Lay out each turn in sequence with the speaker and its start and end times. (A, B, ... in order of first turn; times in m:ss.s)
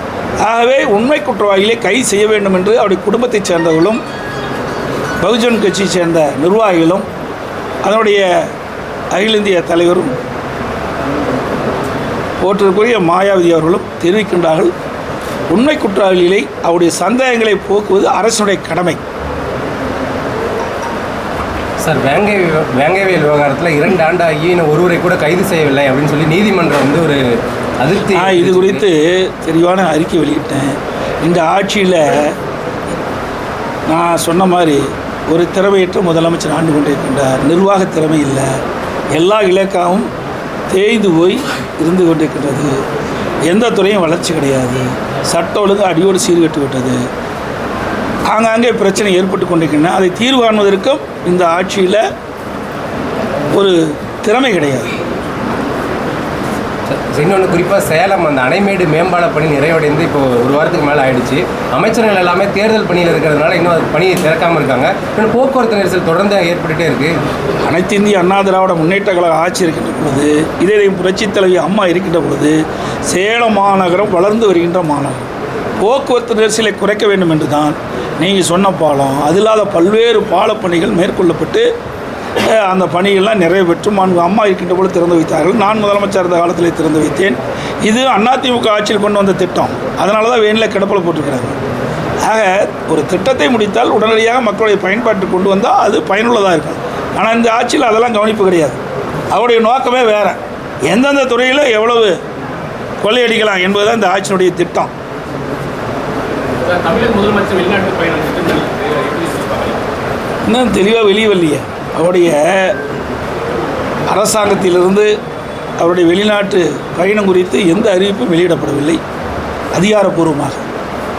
0:00.4-0:04.0 A
0:05.2-0:07.0 A
0:07.8-0:08.5 A
0:09.1-0:10.1 A
0:12.4-0:14.7 A
0:15.5-0:19.0 A
0:21.8-0:27.2 B
0:27.8-0:28.8 B
0:28.1-0:32.4 A
0:33.9-0:38.6 A
0:39.1-0:40.1 A
0:40.7-0:42.8 A
0:43.5-0:47.0 A
0:48.3-0:52.0 A
0:53.5-0:55.0 A
0:56.9-1:07.2 B
1:07.6-1:15.2 A
1:15.8-1:21.6 A
1:22.4-1:31.6 A
1:32.2-1:38.8 A
1:39.3-1:42.2 A
1:43.0-1:44.9 A
1:46.5-1:49.8 C
1:50.4-1:52.8 A
1:54.1-1:55.1 A
1:55.8-1:59.0 A
1:59.7-2:00.6 A